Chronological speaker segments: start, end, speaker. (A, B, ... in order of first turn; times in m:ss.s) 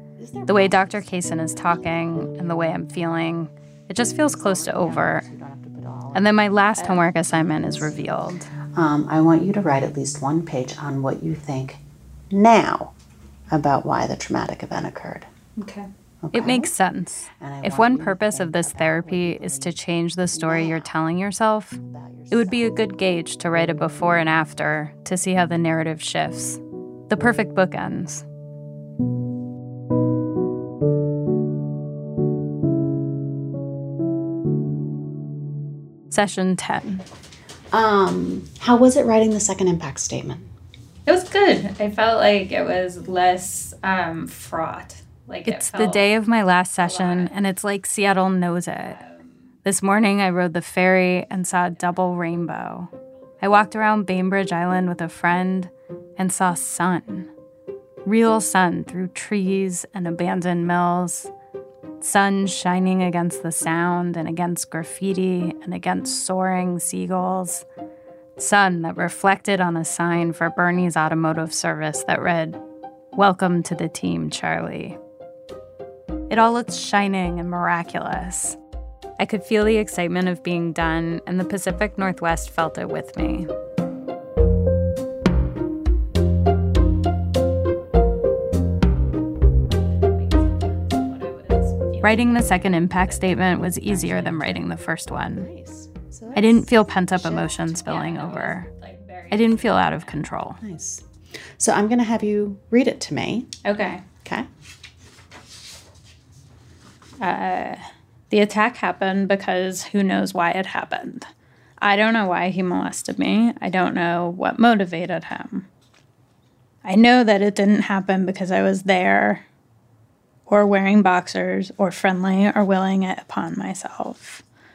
0:00.2-0:02.5 A
0:00.5-0:05.2 B
0:04.2-0:12.9 A
0:06.1-0:08.5 B
0:06.8-0:07.0 C
0:13.5-0:15.3 A
0:15.6-0:15.9 C
0:16.2-0:16.7 A
0:16.3-0:21.8 B
0:17.3-0:20.9 A
0:21.8-0:22.8 A
0:22.3-0:28.2 B
0:36.1-0:37.0 B
0:37.7-0:40.5 A
0:41.0-0:46.0 C
0:45.4-0:49.0 B
0:46.8-0:47.4 C
0:48.8-0:49.4 C
0:49.6-0:52.9 B
0:51.8-0:52.3 C
0:53.4-0:57.3 B
0:58.0-1:01.3 B
1:02.0-1:07.6 B
1:08.4-1:12.6 B
1:13.1-1:15.0 B
1:16.3-1:18.6 B
1:19.2-1:23.5 B
1:30.0-1:34.3 C
1:32.0-1:35.5 B
1:33.7-1:38.1 A
1:36.3-1:38.7 B
1:37.8-1:40.2 C
1:39.3-1:40.6 B
1:40.6-1:43.5 A
1:43.6-1:44.0 C
1:47.2-1:51.3 C
1:51.8-1:55.7 C
1:56.8-1:59.4 C
2:00.5-2:04.4 C